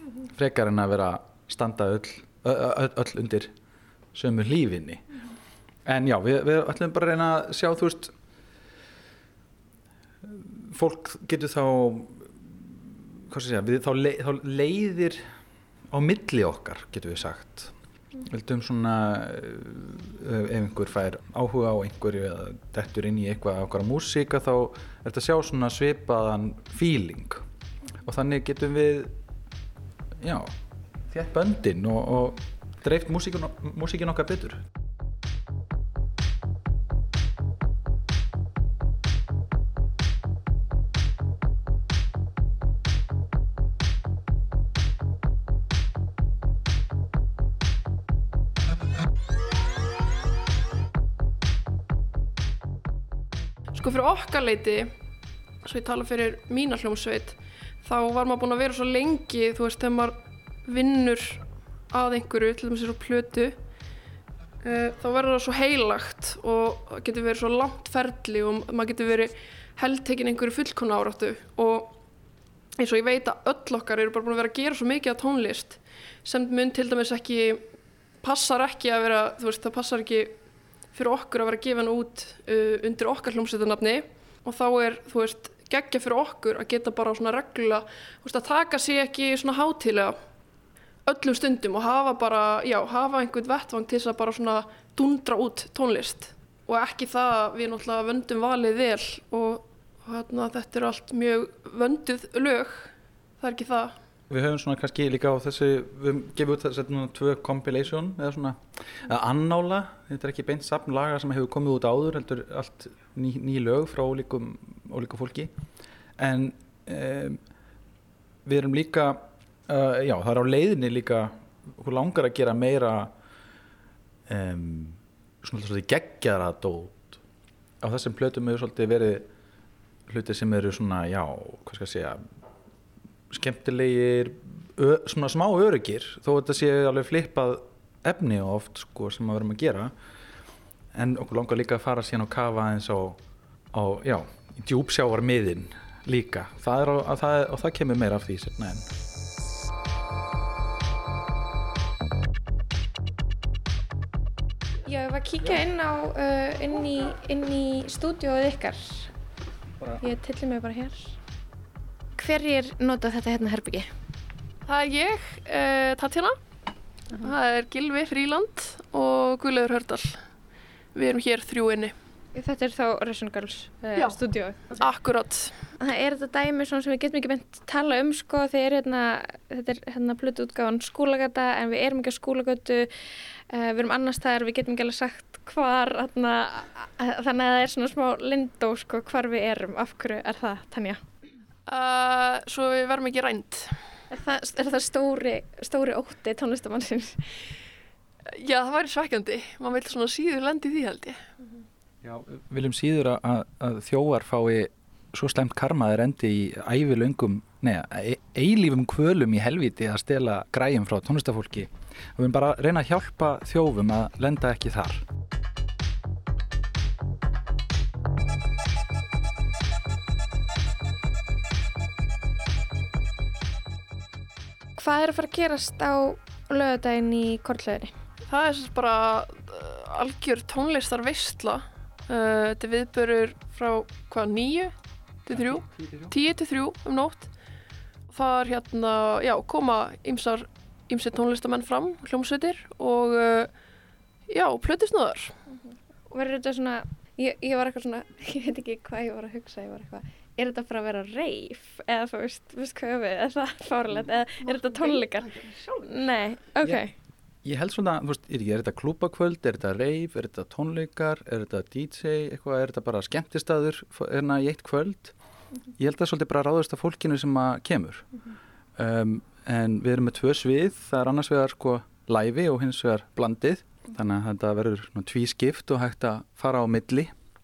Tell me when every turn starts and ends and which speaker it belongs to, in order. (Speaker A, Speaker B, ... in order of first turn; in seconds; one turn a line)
Speaker A: 0.2-3.5
Speaker A: 4.1-5.0
Speaker A: 5.8-8.1
Speaker A: 10.2-15.2
Speaker A: 15.9-27.4
Speaker A: 28.0-29.1
Speaker A: 30.2-30.5
Speaker A: 31.1-34.7
Speaker B: 53.7-54.9
Speaker B: 55.6-63.6
Speaker B: 64.6-72.0
Speaker B: 72.8-77.6
Speaker B: 78.2-80.4
Speaker B: 80.9-90.2
Speaker B: 91.0-103.9
Speaker A: 104.3-115.5
Speaker A: 116.2-117.4
Speaker A: 118.4-123.1
Speaker A: 124.3-127.2
Speaker A: 127.8-129.3
Speaker A: 130.1-132.2
Speaker A: 133.3-139.9
Speaker A: 140.9-143.2
Speaker A: 143.7-148.8
Speaker C: 154.8-159.1
Speaker C: 160.0-161.2
Speaker C: 162.2-163.9
Speaker B: 164.7-166.4
Speaker B: 167.1-170.2
Speaker B: 170.9-171.9
Speaker C: 172.3-174.9
Speaker B: 174.8-175.6
Speaker C: 175.8-182.9
Speaker C: 183.5-191.0
Speaker B: 191.7-193.8
Speaker C: 194.1-197.2
Speaker B: 198.3-201.2
Speaker A: 202.0-215.0
Speaker C: 224.8-227.9
Speaker B: 228.2-234.7
Speaker B: 235.3-237.3
Speaker A: 235.8-236.1
Speaker B: 238.1-243.5
Speaker B: 244.3-245.4
Speaker C: 245.5-256.9
Speaker B: 254.4-255.9
Speaker A: 257.4-265.1
Speaker A: 265.8-268.1
Speaker A: 268.8-277.1